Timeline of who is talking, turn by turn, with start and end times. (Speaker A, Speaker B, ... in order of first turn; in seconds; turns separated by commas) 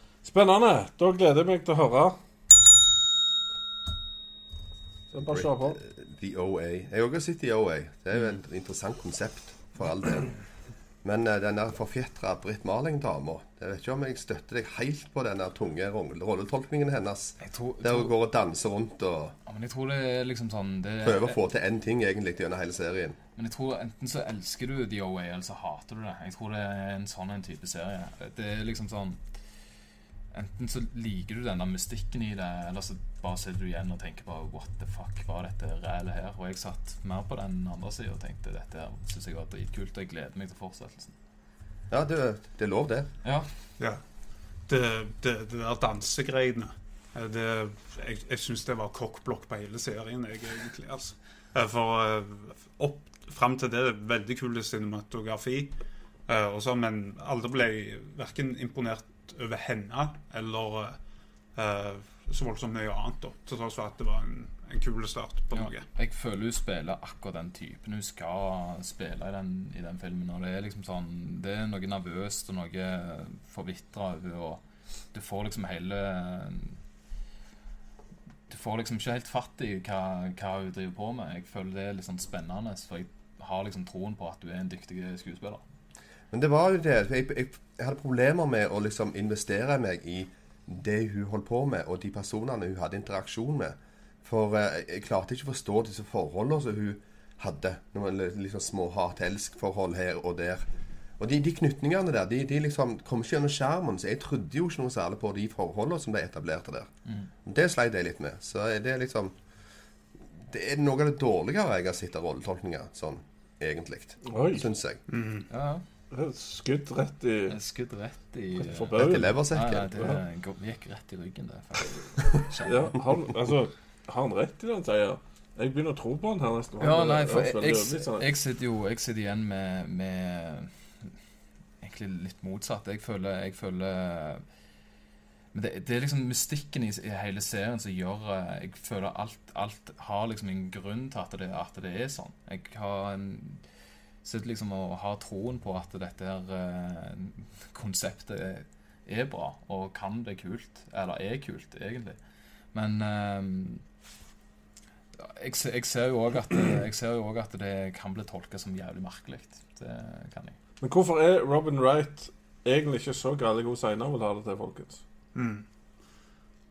Speaker A: 0.2-2.2, Speaker A: 5.1-5.8, Speaker B: 5.1-10.4, Speaker B: 11.0-19.4, Speaker C: 17.4-18.1, Speaker C: 19.4-21.4, Speaker B: 21.0-23.2, Speaker C: 23.4-29.4, Speaker C: 30.3-41.1, Speaker B: 41.9-43.1, Speaker D: 44.7-55.7, Speaker D: 56.3-61.0, Speaker D: 61.5-65.8, Speaker C: 65.5-76.8, Speaker C: 78.5-85.6, Speaker B: 86.3-100.6, Speaker B: 101.2-106.9, Speaker B: 107.5-109.3, Speaker B: 110.4-115.0, Speaker A: 114.3-114.7, Speaker D: 115.1-115.5, Speaker C: 115.5-115.8, Speaker A: 116.1-117.6, Speaker C: 117.5-123.0, Speaker A: 118.5-119.3, Speaker B: 119.0-119.9, Speaker A: 120.0-120.2, Speaker A: 122.7-128.3, Speaker C: 126.8-131.1, Speaker C: 131.8-134.4, Speaker C: 135.5-143.6, Speaker C: 144.2-152.2, Speaker C: 152.7-153.8, Speaker C: 155.2-160.6, Speaker A: 160.8-165.0, Speaker D: 165.3-165.6